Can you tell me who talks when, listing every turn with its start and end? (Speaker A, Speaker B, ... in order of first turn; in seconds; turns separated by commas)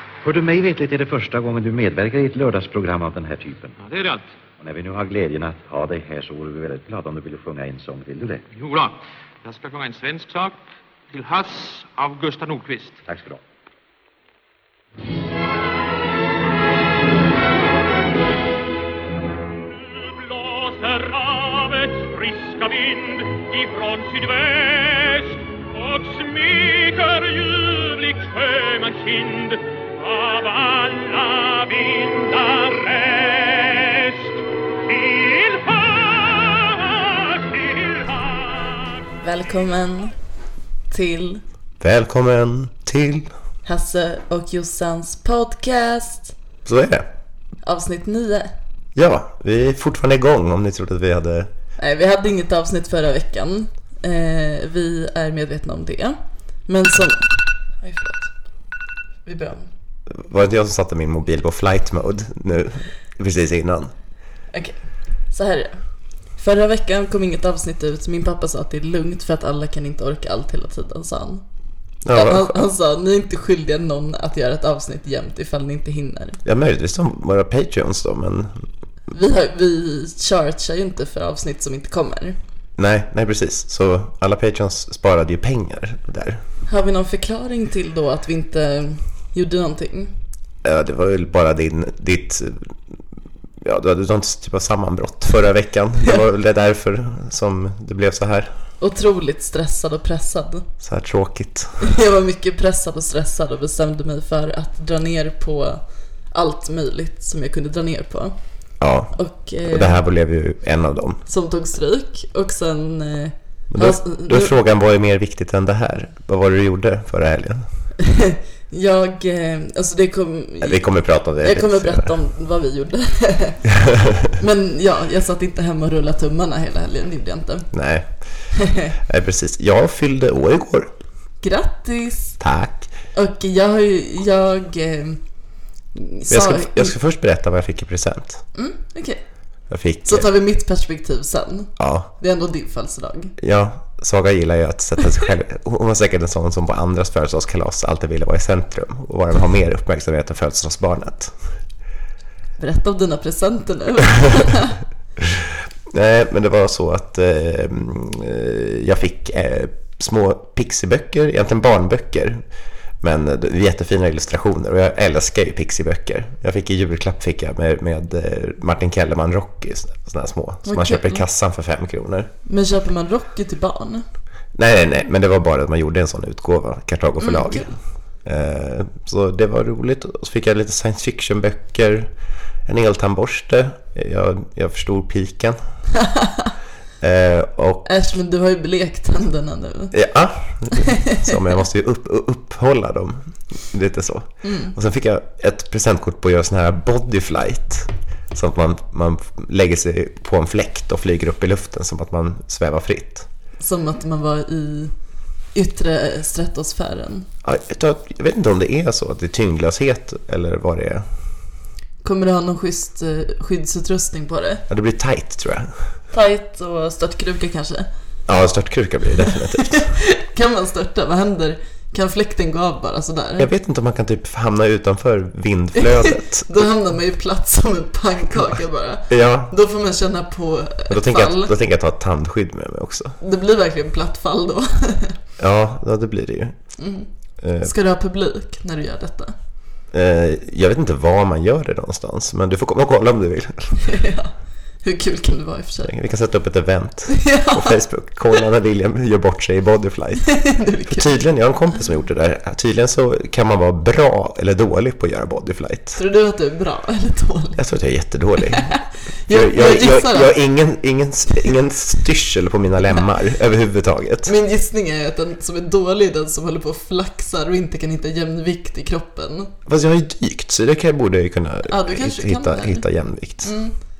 Speaker A: 0.2-3.8, Speaker B: 3.8-4.2, Speaker A: 4.6-8.4, Speaker B: 8.5-10.6, Speaker B: 11.1-13.0, Speaker A: 13.1-13.4, Speaker C: 19.6-39.0, Speaker D: 39.2-40.1, Speaker D: 40.9-41.4, Speaker E: 41.8-43.3, Speaker D: 43.6-46.3, Speaker E: 46.6-47.1, Speaker D: 47.6-48.5, Speaker E: 48.9-51.5, Speaker D: 51.8-56.1, Speaker D: 56.7-58.3, Speaker D: 59.2-59.7, Speaker E: 60.1-63.9, Speaker D: 65.3-65.8, Speaker D: 66.4-71.4, Speaker E: 72.0-72.6, Speaker D: 72.1-76.4, Speaker E: 76.4-78.5, Speaker D: 79.1-82.4, Speaker E: 82.8-86.4, Speaker D: 86.7-90.1, Speaker E: 90.6-92.7, Speaker E: 93.6-98.5, Speaker D: 98.8-100.7, Speaker E: 100.8-101.7, Speaker D: 101.8-105.8, Speaker D: 106.3-108.3, Speaker E: 108.8-109.1, Speaker D: 109.1-110.0, Speaker E: 109.7-111.2, Speaker D: 111.3-114.6, Speaker E: 113.7-117.7, Speaker D: 118.0-120.8, Speaker E: 120.6-122.1, Speaker D: 121.4-123.7, Speaker E: 123.7-124.3, Speaker D: 124.4-127.7, Speaker E: 127.7-128.1, Speaker D: 128.5-128.9, Speaker E: 129.1-130.9, Speaker D: 131.4-132.4, Speaker E: 132.4-132.9, Speaker D: 133.1-135.2, Speaker D: 135.9-136.9, Speaker E: 136.3-138.4, Speaker D: 138.5-139.2, Speaker E: 139.7-140.3, Speaker D: 140.1-143.3, Speaker E: 141.8-142.1, Speaker E: 143.4-151.3, Speaker D: 152.6-154.8, Speaker E: 155.9-162.4, Speaker E: 163.0-172.3, Speaker D: 170.6-171.2, Speaker D: 172.4-174.0, Speaker E: 174.5-182.1, Speaker D: 177.2-177.7, Speaker E: 182.7-185.6, Speaker D: 185.9-186.5, Speaker E: 187.0-187.8, Speaker D: 187.8-189.9, Speaker E: 189.9-203.3, Speaker D: 190.7-191.3, Speaker D: 194.4-194.7, Speaker D: 203.6-204.9, Speaker D: 205.5-207.3, Speaker E: 207.4-211.1, Speaker D: 212.0-214.6, Speaker E: 214.7-215.7, Speaker D: 216.1-217.9, Speaker E: 218.3-219.9, Speaker D: 219.3-223.5, Speaker E: 223.4-226.5, Speaker D: 225.8-231.5, Speaker E: 229.1-229.5, Speaker E: 230.9-233.2, Speaker D: 233.2-235.2, Speaker E: 235.4-236.6, Speaker D: 236.8-237.1, Speaker E: 237.4-237.7, Speaker D: 237.6-239.3, Speaker E: 239.9-243.8, Speaker D: 243.8-244.3, Speaker D: 244.8-245.9, Speaker E: 245.8-250.3, Speaker D: 247.1-247.8, Speaker D: 250.3-251.1, Speaker E: 250.9-256.0, Speaker D: 256.0-257.6, Speaker E: 257.6-258.7, Speaker D: 258.4-260.3, Speaker E: 259.3-264.3, Speaker D: 264.2-269.5, Speaker E: 269.7-273.5, Speaker D: 271.7-272.8, Speaker D: 273.4-273.7